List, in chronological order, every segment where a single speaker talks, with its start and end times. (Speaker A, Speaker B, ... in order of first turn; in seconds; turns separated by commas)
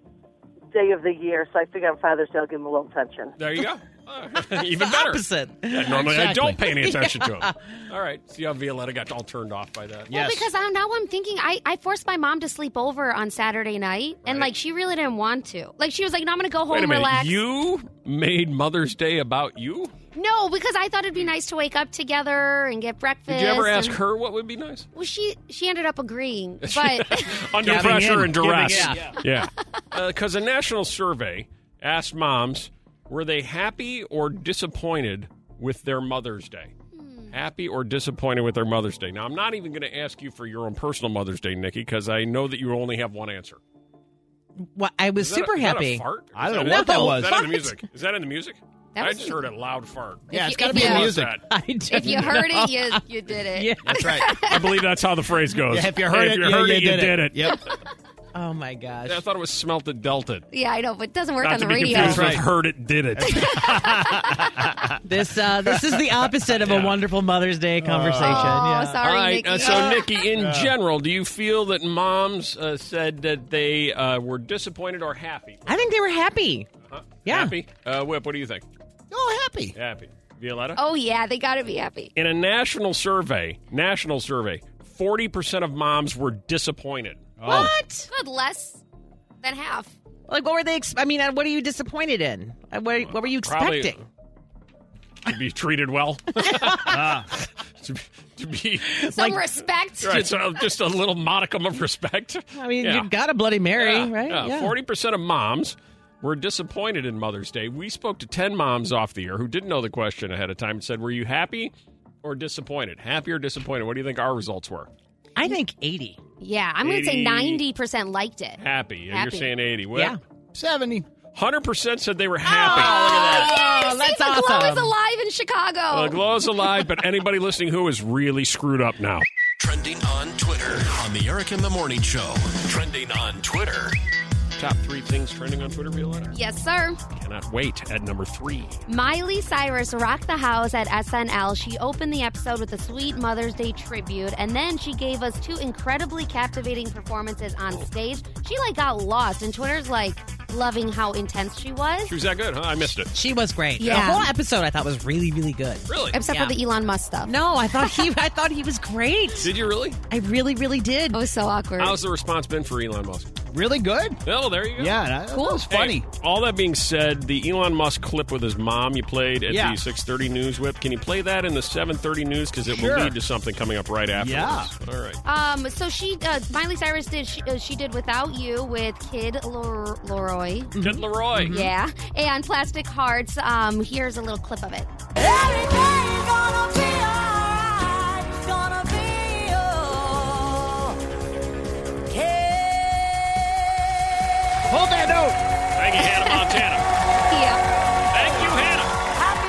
Speaker A: 0.7-3.3, Speaker B: 3.4-10.1, Speaker C: 4.6-6.0, Speaker D: 5.9-6.6, Speaker C: 6.6-7.8, Speaker D: 10.1-10.5, Speaker E: 10.1-17.4, Speaker B: 14.2-14.5, Speaker B: 16.7-19.9, Speaker E: 20.1-24.0, Speaker B: 23.3-24.9, Speaker E: 24.9-27.4, Speaker B: 26.6-36.7, Speaker D: 27.6-29.1, Speaker C: 27.7-29.0, Speaker E: 36.9-37.3, Speaker B: 37.3-43.6, Speaker C: 44.6-46.0, Speaker B: 45.2-51.4, Speaker D: 46.3-47.4, Speaker C: 46.6-47.3, Speaker E: 47.3-47.7, Speaker E: 49.0-49.4, Speaker D: 50.3-51.4, Speaker E: 50.3-51.1, Speaker C: 51.4-54.2, Speaker E: 51.9-54.8, Speaker B: 52.0-52.3, Speaker D: 53.9-54.3, Speaker B: 54.4-57.6, Speaker D: 55.7-57.6, Speaker C: 58.3-59.2, Speaker B: 59.0-60.5, Speaker E: 60.5-62.3, Speaker B: 61.4-63.6, Speaker D: 61.9-62.5, Speaker D: 63.2-64.9, Speaker E: 63.4-64.5, Speaker C: 65.0-69.0, Speaker B: 66.6-67.0, Speaker D: 67.8-68.5, Speaker E: 68.2-70.1, Speaker B: 69.0-75.8, Speaker D: 70.3-70.7, Speaker C: 75.7-76.7, Speaker B: 76.8-78.6, Speaker C: 77.2-77.5, Speaker D: 79.1-79.7, Speaker B: 79.8-80.8, Speaker E: 80.8-82.1, Speaker B: 82.2-87.7, Speaker D: 87.4-87.7, Speaker C: 87.5-88.1, Speaker E: 87.5-88.8, Speaker E: 89.4-89.9, Speaker C: 90.3-94.0, Speaker B: 93.0-94.0, Speaker B: 95.2-99.1, Speaker D: 96.8-97.3, Speaker C: 99.0-99.4, Speaker E: 99.1-100.3, Speaker B: 100.0-103.1, Speaker C: 102.5-104.7, Speaker B: 103.8-114.9, Speaker C: 115.3-116.2, Speaker E: 116.4-119.5, Speaker B: 116.8-117.6, Speaker B: 118.6-120.2, Speaker D: 120.5-121.0, Speaker B: 121.3-123.5, Speaker E: 122.4-126.2, Speaker C: 122.6-124.9, Speaker B: 125.9-129.2, Speaker F: 129.6-134.0, Speaker B: 134.6-136.3, Speaker E: 136.3-137.0, Speaker B: 137.1-138.8, Speaker E: 138.9-152.1, Speaker B: 152.1-153.1, Speaker C: 153.1-156.6, Speaker E: 153.8-154.3, Speaker B: 155.8-156.2, Speaker E: 156.1-157.3, Speaker C: 157.2-159.5, Speaker B: 159.4-160.0, Speaker C: 160.1-161.2, Speaker E: 161.1-162.0, Speaker B: 161.8-163.3, Speaker D: 163.5-164.2, Speaker B: 164.2-165.0, Speaker D: 164.8-166.0, Speaker E: 165.3-165.6, Speaker B: 165.7-175.2, Speaker D: 169.5-169.8, Speaker D: 172.7-173.1, Speaker D: 174.2-174.7, Speaker E: 175.2-180.7, Speaker C: 180.8-181.7, Speaker B: 180.8-181.6, Speaker E: 181.5-184.9, Speaker D: 194.7-195.4, Speaker B: 195.7-196.8, Speaker E: 197.3-197.6, Speaker B: 198.1-198.9